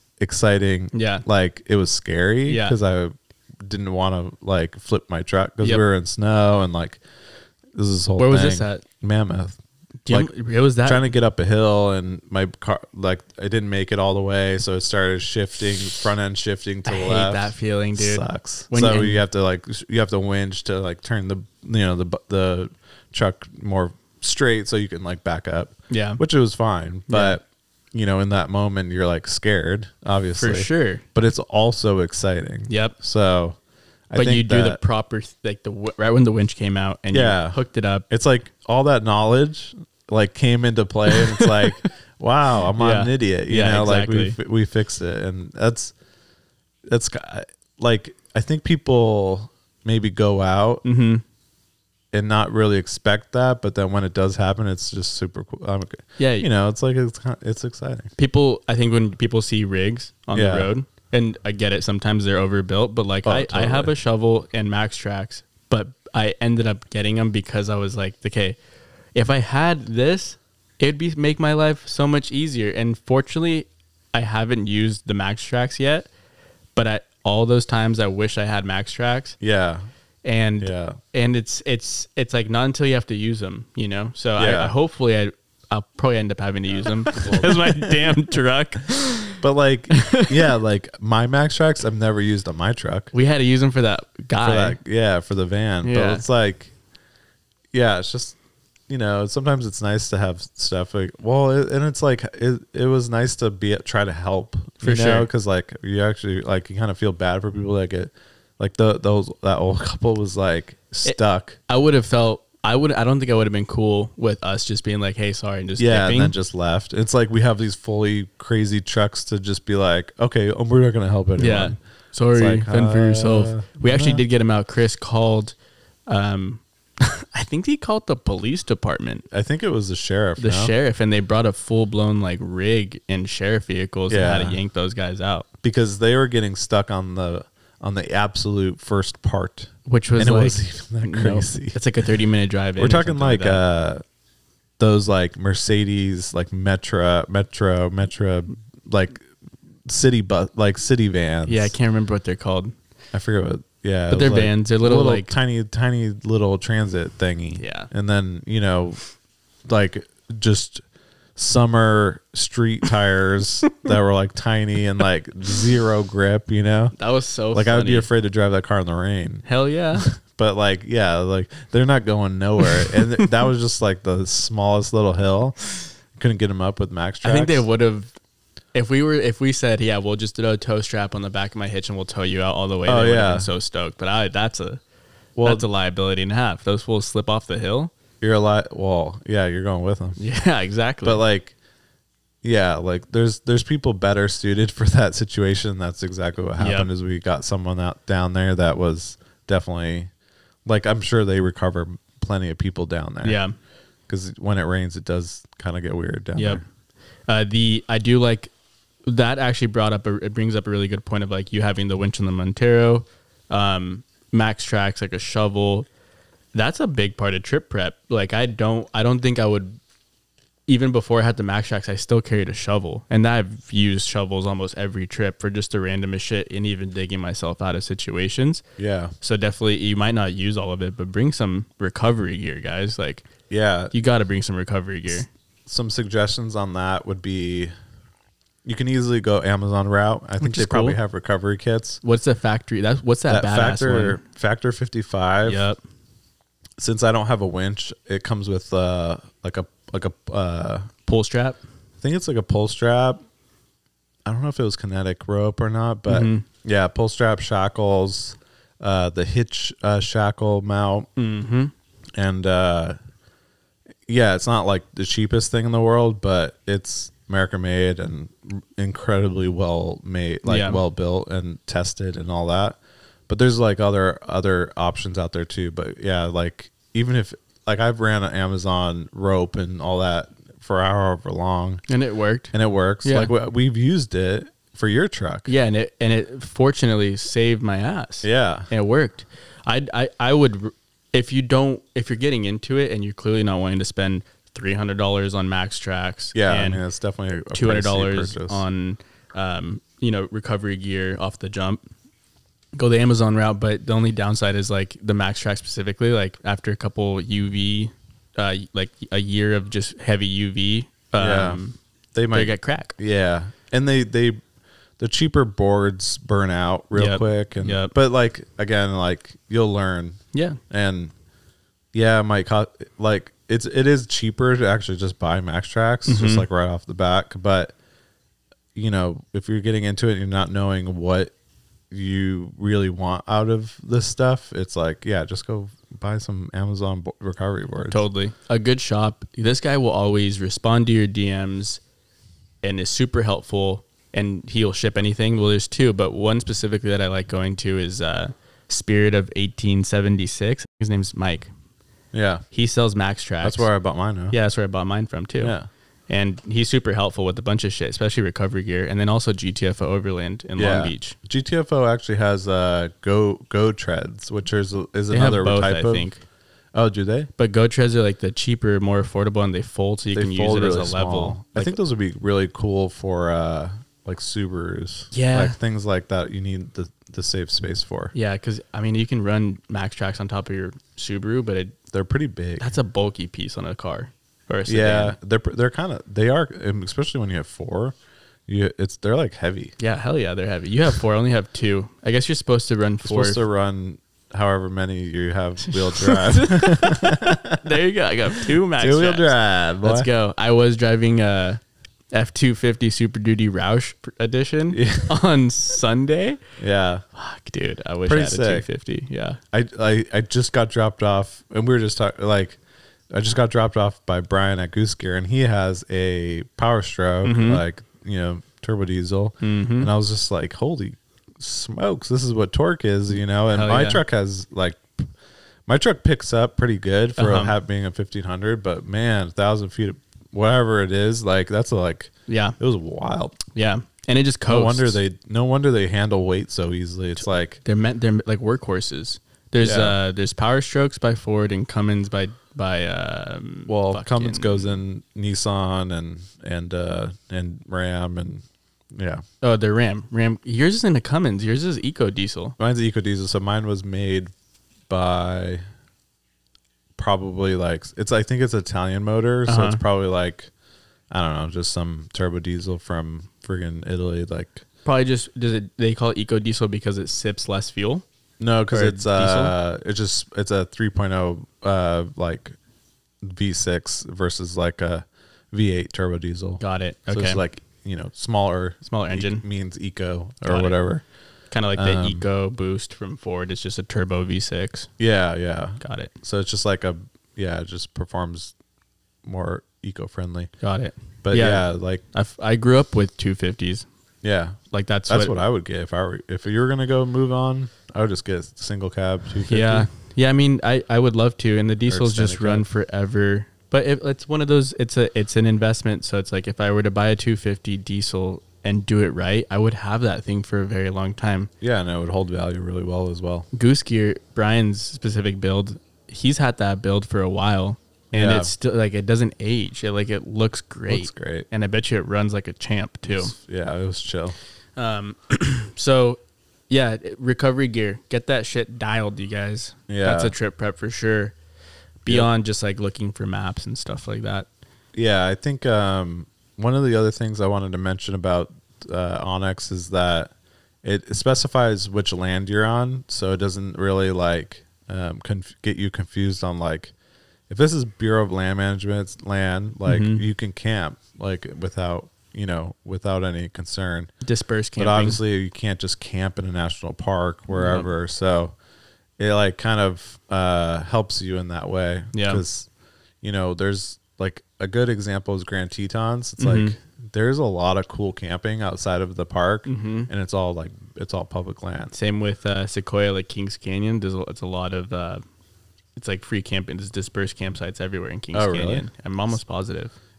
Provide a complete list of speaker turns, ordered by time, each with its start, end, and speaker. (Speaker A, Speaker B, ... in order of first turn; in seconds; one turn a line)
Speaker A: 0.2-7.0
Speaker B: 0.9-1.2
Speaker B: 2.5-2.8
Speaker A: 7.7-10.3
Speaker B: 8.2-8.8
Speaker B: 10.1-11.1
Speaker A: 10.8-33.6
Speaker B: 16.9-19.2
Speaker B: 25.9-26.2
Speaker B: 27.1-27.4
Speaker B: 30.4-31.0
Speaker B: 32.7-32.9
Speaker A: 34.1-34.8
Speaker B: 34.1-38.0
Speaker A: 37.1-37.6
Speaker A: 38.1-45.9
Speaker B: 41.1-41.8
Speaker B: 42.8-44.4
Speaker A: 46.9-50.8
Speaker B: 50.8-51.2
Speaker A: 52.1-58.1
Speaker B: 56.2-56.5
Speaker B: 58.2-68.6
Speaker A: 60.3-60.7
Speaker A: 63.2-63.9
Speaker B: 69.1-76.1
Speaker B: 76.8-79.3
Speaker A: 79.4-79.8
Speaker B: 80.2-89.4
Speaker A: 80.6-81.0
Speaker A: 84.4-84.7
Speaker A: 87.1-88.1
Speaker A: 89.4-93.1
Speaker B: 89.9-90.5
Speaker B: 93.1-94.8
Speaker A: 94.4-96.7
Speaker B: 95.8-96.2
Speaker A: 97.7-98.4
Speaker A: 98.9-111.6
Speaker B: 104.8-105.3
Speaker B: 111.7-116.3
Speaker A: 115.8-121.8
Speaker B: 121.4-125.5
Speaker A: 122.3-124.2
Speaker B: 126.1-129.2
Speaker A: 129.3-130.7
Speaker B: 130.4-135.5
Speaker A: 134.1-134.6
Speaker A: 135.6-141.8
Speaker B: 139.8-143.6
Speaker A: 142.8-144.0
Speaker A: 144.8-149.2
Speaker A: 149.8-151.7
Speaker B: 151.5-152.7
Speaker A: 153.1-159.0
Speaker B: 154.1-155.3
Speaker B: 157.6-157.9
Speaker A: 159.7-160.8
Speaker A: 161.3-166.9
Speaker B: 166.9-168.1
Speaker A: 167.5-175.6
Speaker B: 169.4-170.1
Speaker A: 176.1-177.7
Speaker B: 177.2-178.1
Speaker B: 178.7-184.8
Speaker A: 182.8-183.5
Speaker A: 185.3-185.7
Speaker B: 185.4-187.9
Speaker A: 188.2-190.2
Speaker B: 190.2-191.2
Speaker A: 191.0-191.5
Speaker A: 192.4-200.1
Speaker B: 196.6-196.9
Speaker A: 200.7-203.4
Speaker B: 203.2-203.6
Speaker A: 204.1-206.6
Speaker B: 206.3-206.6
Speaker B: 207.3-208.5
Speaker B: 209.0-215.9
Speaker B: 216.5-219.8
Speaker B: 220.7-228.6
Speaker A: 228.8-229.1
Speaker B: 229.2-233.2
Speaker A: 233.5-233.9
Speaker B: 233.9-235.3
Speaker A: 235.7-237.7
Speaker A: 238.6-242.0
Speaker B: 240.4-241.0
Speaker B: 242.0-244.2
Speaker A: 243.3-245.6
Speaker B: 245.4-245.8
Speaker A: 246.8-250.9
Speaker B: 251.1-251.6
Speaker A: 252.0-253.2
Speaker A: 254.2-261.1
Speaker B: 256.1-256.4
Speaker B: 261.1-261.7
Speaker A: 262.1-263.0
Speaker A: 264.1-281.8
Speaker B: 270.4-270.8
Speaker B: 281.9-282.5
Speaker A: 282.5-285.5
Speaker B: 283.0-283.3
Speaker B: 285.5-296.8
Speaker A: 288.2-288.7
Speaker A: 296.3-298.6
Speaker B: 297.5-301.8
Speaker B: 302.8-311.8
Speaker A: 311.2-311.6
Speaker A: 312.1-314.4
Speaker B: 312.3-312.9
Speaker A: 315.0-321.1
Speaker B: 316.9-317.9
Speaker B: 320.3-320.6
Speaker A: 321.9-327.7
Speaker B: 326.1-326.4
Speaker A: 328.7-331.3
Speaker A: 331.9-338.0
Speaker B: 337.8-341.8
Speaker B: 342.6-351.5
Speaker A: 352.1-352.4
Speaker B: 352.5-353.7
Speaker A: 353.4-354.3
Speaker B: 354.3-355.5
Speaker A: 355.4-355.7
Speaker B: 356.1-361.1
Speaker A: 360.6-366.1
Speaker B: 365.1-366.2
Speaker A: 366.7-367.3
Speaker B: 367.4-371.8
Speaker A: 370.1-378.1
Speaker B: 375.1-375.6
Speaker B: 378.1-381.7
Speaker A: 381.9-382.7
Speaker B: 382.6-385.1
Speaker A: 384.7-387.9
Speaker A: 388.5-389.7
Speaker B: 389.8-393.4
Speaker A: 393.0-397.6
Speaker B: 395.6-401.6
Speaker A: 398.8-400.1
Speaker B: 402.1-406.4
Speaker A: 404.7-405.1
Speaker A: 406.6-407.0
Speaker B: 407.1-409.4
Speaker A: 408.1-408.7
Speaker A: 409.5-412.6
Speaker A: 413.1-424.9
Speaker B: 417.2-417.6
Speaker B: 419.4-419.9
Speaker B: 423.5-424.0
Speaker A: 425.6-433.4
Speaker B: 427.2-427.6
Speaker B: 432.3-432.6
Speaker B: 433.5-435.0
Speaker A: 434.5-437.6
Speaker B: 437.2-444.8
Speaker A: 439.6-440.0
Speaker A: 443.7-449.2
Speaker B: 449.4-452.6
Speaker A: 452.6-454.3
Speaker A: 454.9-455.6
Speaker A: 457.0-460.5
Speaker B: 459.5-459.8
Speaker A: 461.1-464.6
Speaker B: 464.8-468.0
Speaker A: 468.4-472.6
Speaker B: 468.7-469.5
Speaker A: 473.2-481.0
Speaker B: 476.6-477.4
Speaker B: 478.8-479.4
Speaker B: 480.4-480.8
Speaker B: 481.5-484.9
Speaker A: 481.8-482.2
Speaker A: 485.0-488.5
Speaker B: 485.8-486.1
Speaker A: 489.2-490.5
Speaker B: 490.6-493.9
Speaker A: 491.2-492.0
Speaker A: 494.2-499.9
Speaker B: 494.7-495.4
Speaker B: 499.5-511.5
Speaker A: 501.9-502.6
Speaker A: 511.6-513.5
Speaker B: 513.5-523.3
Speaker A: 518.1-518.5
Speaker A: 520.9-521.5
Speaker A: 523.1-524.4
Speaker B: 524.8-531.3
Speaker A: 529.9-530.3
Speaker B: 532.0-534.5
Speaker A: 534.9-540.3
Speaker A: 540.8-546.9
Speaker A: 547.5-554.1
Speaker B: 549.9-550.2
Speaker B: 554.2-555.2
Speaker A: 554.8-558.5
Speaker B: 557.5-557.9
Speaker A: 559.2-562.7
Speaker B: 562.1-562.4
Speaker A: 563.2-571.9
Speaker B: 566.4-566.8
Speaker B: 569.6-570.1
Speaker B: 571.9-575.2
Speaker B: 576.0-579.9
Speaker A: 578.3-578.9